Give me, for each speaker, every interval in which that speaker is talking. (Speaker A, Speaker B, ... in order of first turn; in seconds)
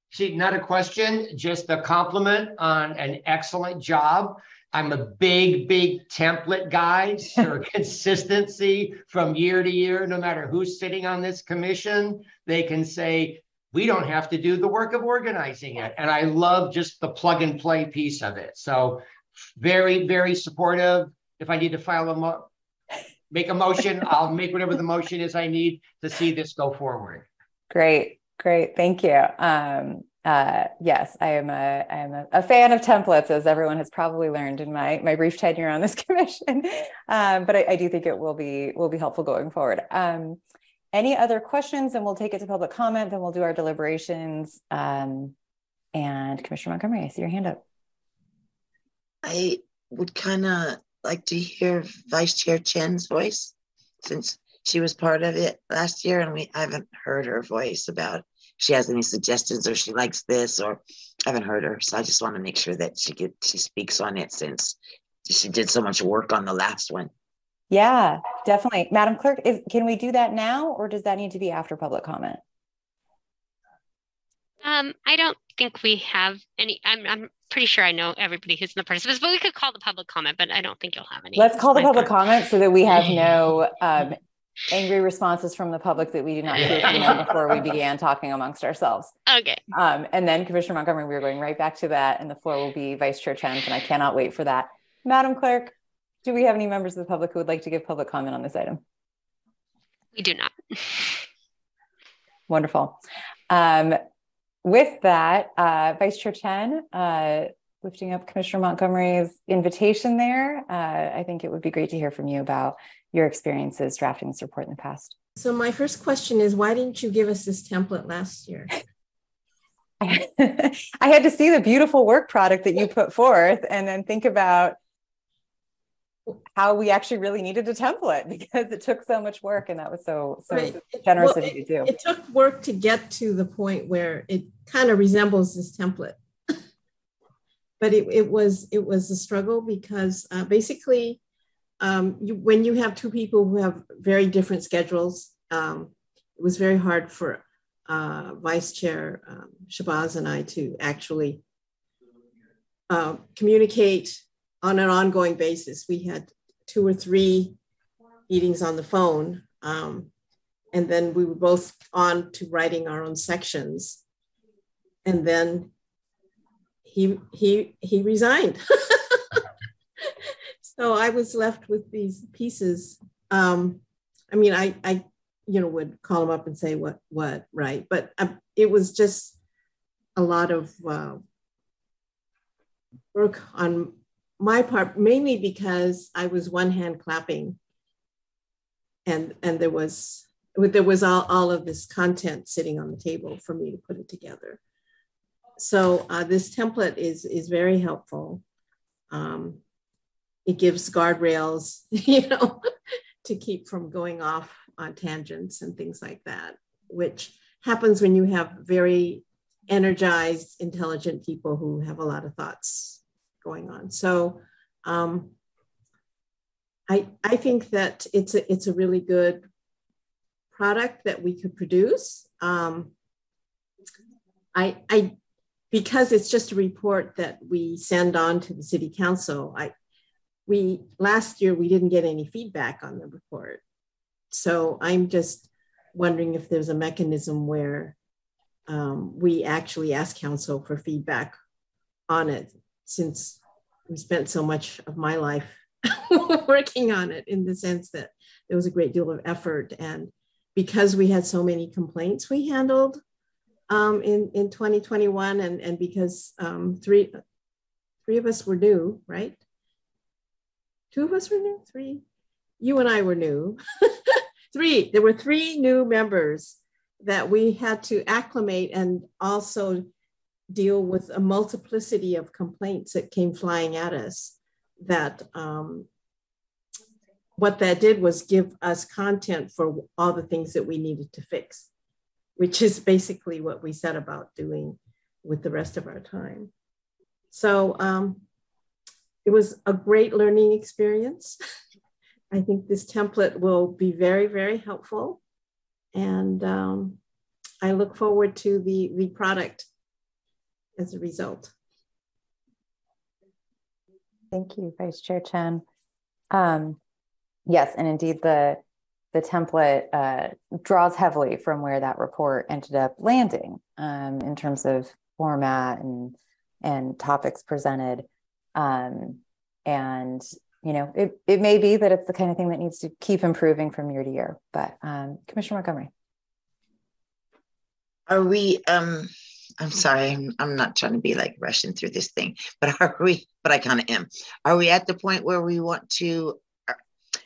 Speaker A: 0.1-19.0, 19.6-22.5, 23.3-27.3, 86.7-87.2
Speaker B: 27.7-40.4, 40.9-45.3, 45.9-47.6, 67.7-72.4, 81.3-84.2, 84.7-89.2, 89.7-98.8, 102.5-104.0, 104.6-115.1, 120.0-124.8, 126.5-131.9, 304.3-305.6, 306.3-306.8, 307.5-308.6, 309.1-325.9
Speaker C: 49.2-67.1, 328.1-336.8
Speaker D: 74.6-82.1, 89.3-89.6, 100.1-101.2
Speaker E: 115.4-118.7, 130.5-136.5, 137.8-141.2, 141.8-151.4, 152.9-157.6, 158.3-160.1, 160.7-164.0, 165.1-165.7, 166.8-169.4, 170.0-179.4, 180.2-181.2, 183.1-187.6, 189.1-194.6, 195.6-198.4, 199.1-199.6, 200.4-202.7, 203.2-215.3, 216.9-219.5, 220.5-222.9, 224.5-225.1, 225.7-229.7, 230.5-233.6, 234.3-237.9, 238.7-241.3, 242.1-253.0, 253.7-257.2, 258.1-259.4, 260.9-262.0, 262.6-269.9, 270.5-275.9, 277.4-281.7, 282.4-286.5, 287.3-288.2, 289.2-291.4, 292.3-295.2, 295.9-297.0, 297.6-299.7, 300.8-301.5